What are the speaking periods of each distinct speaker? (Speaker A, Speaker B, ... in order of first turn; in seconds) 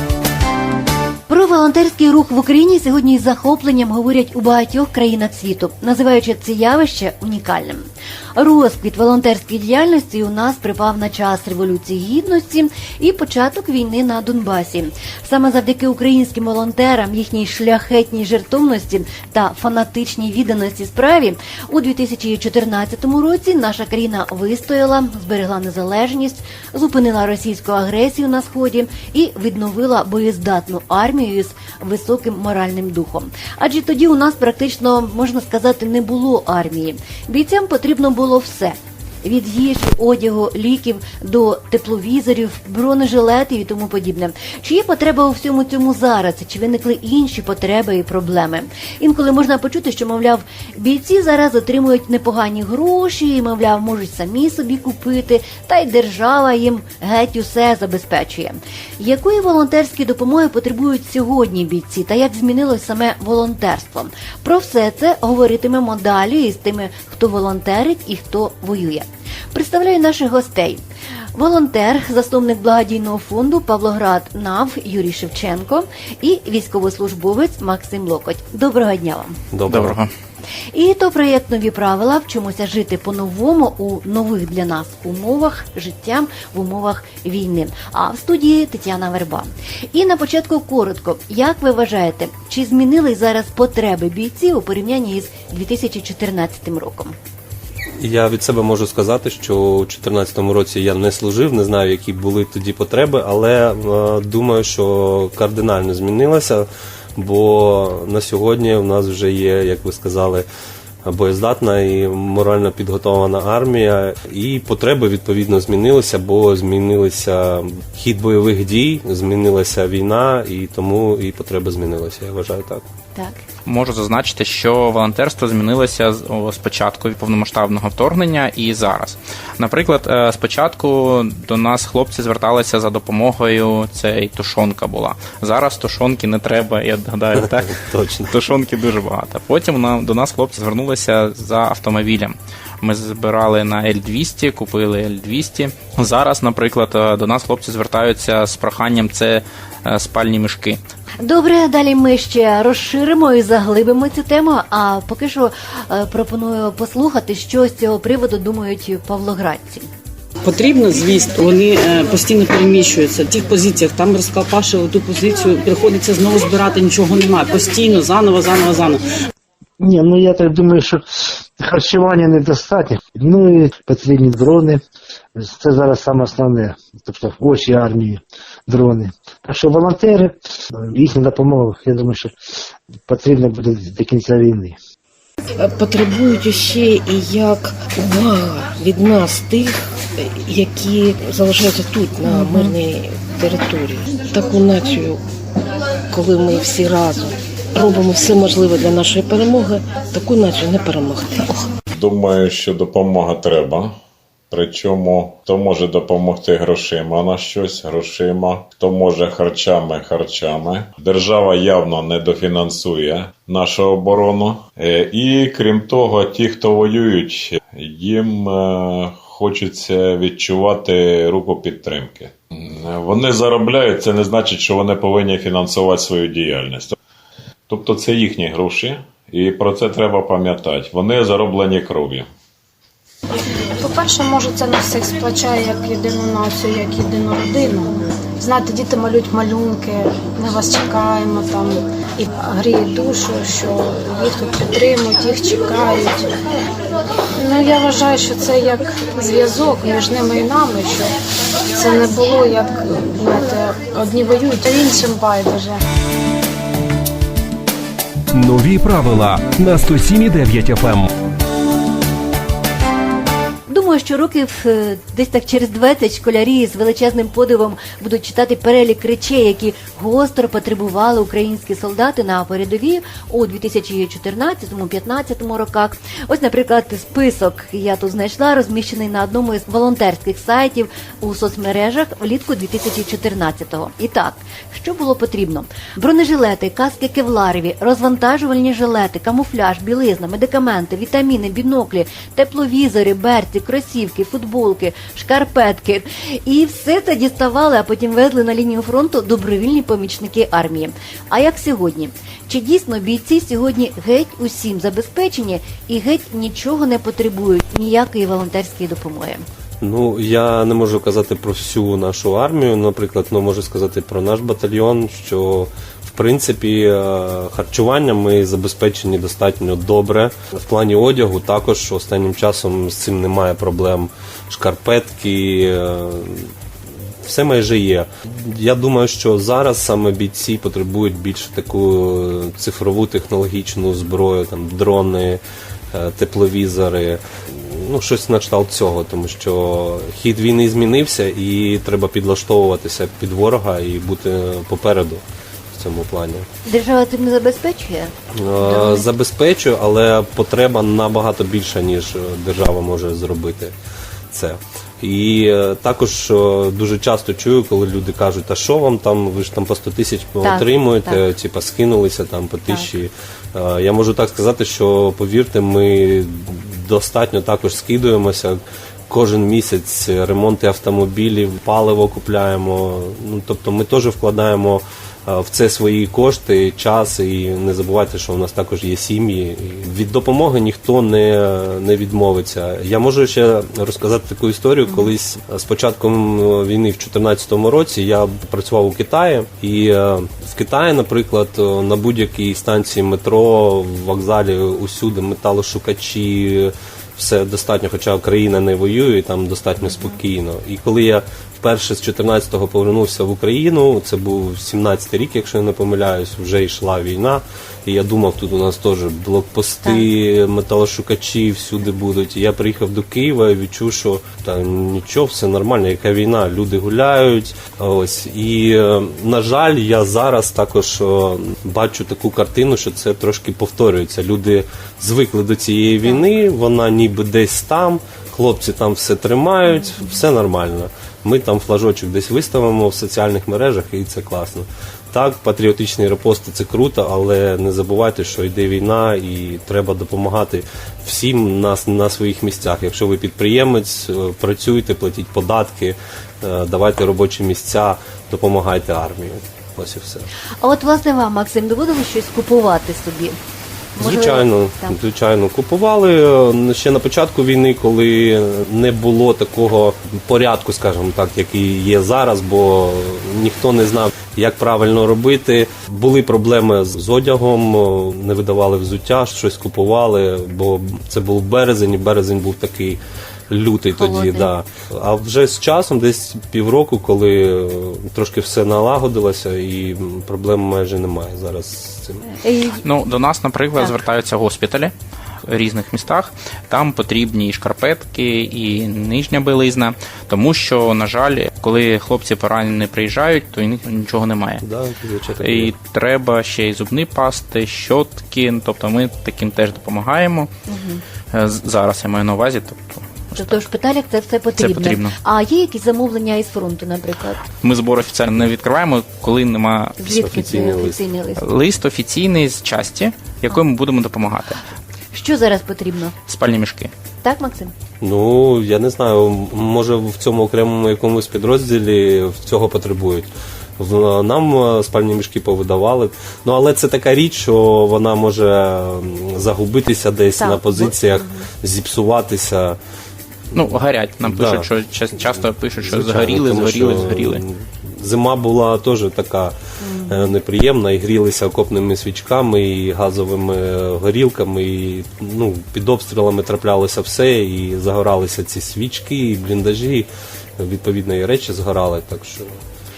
Speaker A: 1.3-7.8, 8.4-70.8, 71.3-79.4, 80.7-97.2, 151.2-159.9, 192.3-192.7, 263.7-309.4, 346.7-349.1, 360.4-361.2, 450.6-453.4, 453.9-454.9, 473.9-474.5, 482.2-482.8, 500.7-501.0, 503.4-507.4, 510.0-511.4, 515.1-516.1, 517.2-517.7, 530.4-531.5, 539.8-540.3
Speaker B: 79.5-80.0, 98.0-110.5, 111.0-122.8, 137.4-138.3, 309.8-326.5, 327.2-346.5, 348.3-353.8, 354.3-450.3, 454.0-482.2, 494.6-495.7, 510.1-510.9, 518.0-532.8, 533.5-534.7, 535.8-539.6, 540.1-552.6
Speaker C: 79.7-80.1, 123.7-150.8, 482.8-484.9, 485.5-494.6, 495.4-500.5, 501.3-503.6, 504.6-505.2, 507.6-510.9, 511.4-514.6, 516.3-516.9, 533.5-537.4
Speaker D: 160.4-169.0
Speaker E: 169.8-171.0, 171.6-174.8, 175.4-182.3, 183.1-184.8
Speaker F: 185.6-195.2, 196.1-201.7
Speaker G: 201.9-203.9, 204.5-227.0, 227.7-232.3
Speaker H: 233.8-246.3, 247.4-251.1, 251.7-255.8
Speaker I: 258.3-261.1